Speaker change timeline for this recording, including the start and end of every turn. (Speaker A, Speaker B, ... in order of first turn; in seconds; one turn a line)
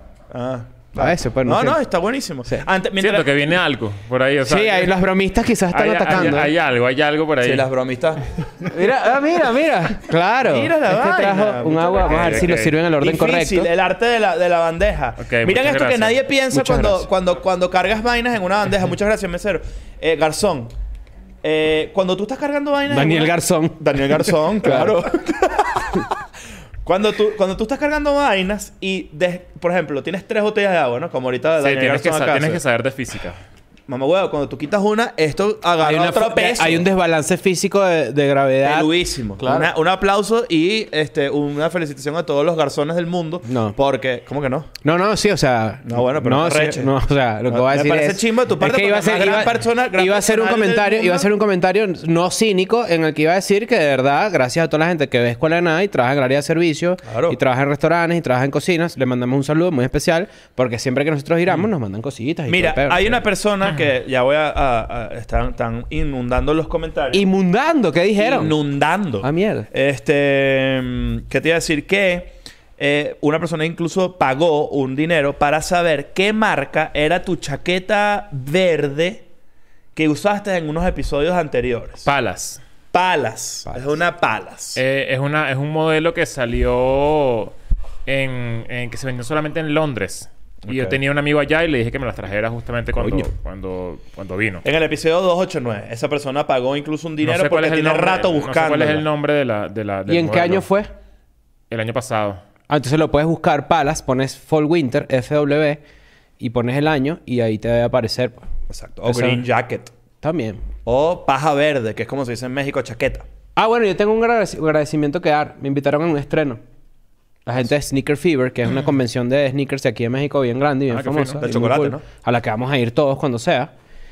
Speaker A: 0.3-3.5
Speaker B: 0.9-1.8
Speaker C: 3.0-4.9
Speaker B: 4.4-6.5
Speaker C: 5.7-7.7
Speaker A: 7.4-8.2
Speaker B: 8.7-13.7
Speaker A: 10.4-20.7
Speaker C: 12.0-12.7
Speaker C: 15.2-16.2
Speaker B: 16.5-17.1
Speaker A: 21.4-26.0
Speaker B: 22.9-25.0
Speaker A: 26.8-32.6
Speaker C: 31.6-33.4
Speaker A: 33.9-36.9
Speaker B: 35.8-39.7
Speaker A: 38.6-44.7
Speaker B: 43.5-43.8
Speaker B: 44.8-63.2
Speaker A: 45.9-46.9
Speaker A: 47.5-51.3
Speaker A: 57.0-57.4
Speaker A: 62.5-67.2
Speaker B: 67.1-68.5
Speaker A: 68.2-79.2
Speaker B: 69.2-69.7
Speaker A: 79.9-82.1
Speaker C: 82.0-82.6
Speaker A: 82.9-84.8
Speaker C: 84.7-87.5
Speaker C: 88.0-94.6
Speaker A: 90.6-91.0
Speaker B: 93.0-93.3
Speaker A: 94.6-99.0
Speaker C: 97.2-100.6
Speaker B: 100.1-100.9
Speaker C: 101.7-102.4
Speaker B: 102.7-105.8
Speaker B: 106.4-108.5
Speaker A: 108.7-109.9
Speaker B: 109.0-109.4
Speaker B: 110.2-110.6
Speaker A: 110.8-113.2
Speaker B: 113.5-116.6
Speaker B: 117.5-123.7
Speaker C: 120.9-121.4
Speaker A: 121.4-122.0